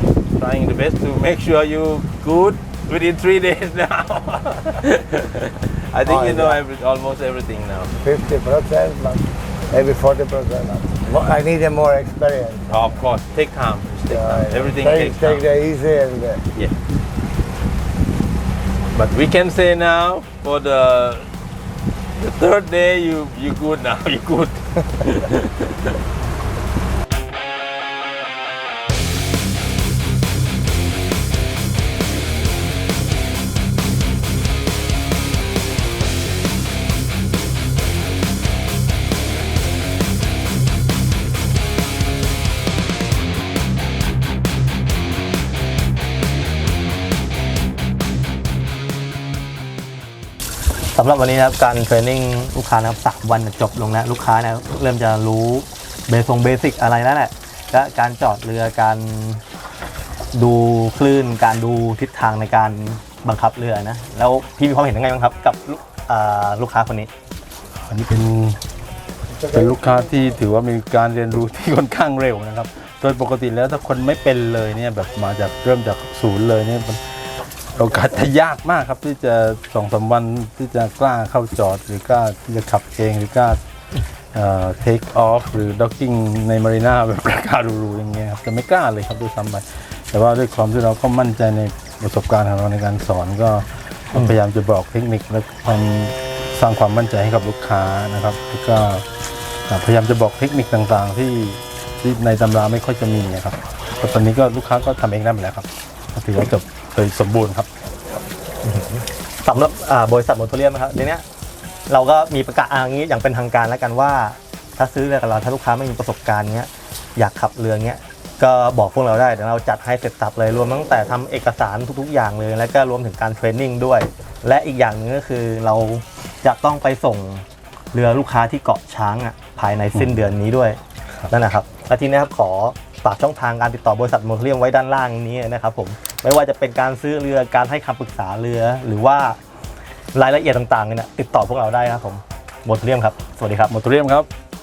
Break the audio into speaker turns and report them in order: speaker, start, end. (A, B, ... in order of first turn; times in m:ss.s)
0:00.3-0:07.9 A
0:06.0-0:06.6 B
0:08.0-0:12.8 B
0:12.7-0:15.4 A
0:14.1-0:16.4 B
0:18.9-0:21.3 A
0:22.2-0:26.0 A
0:50.9-0:59.4 C
1:00.3-1:07.1 C
1:07.8-1:08.6 A
1:09.3-1:10.4 B
1:09.5-1:17.0 A
1:17.7-1:23.6 A
1:24.3-1:39.0 A
1:39.7-1:47.7 A
1:48.6-1:51.2 C
1:51.9-2:19.4 C
2:20.1-2:23.7 C
2:23.7-2:24.3 A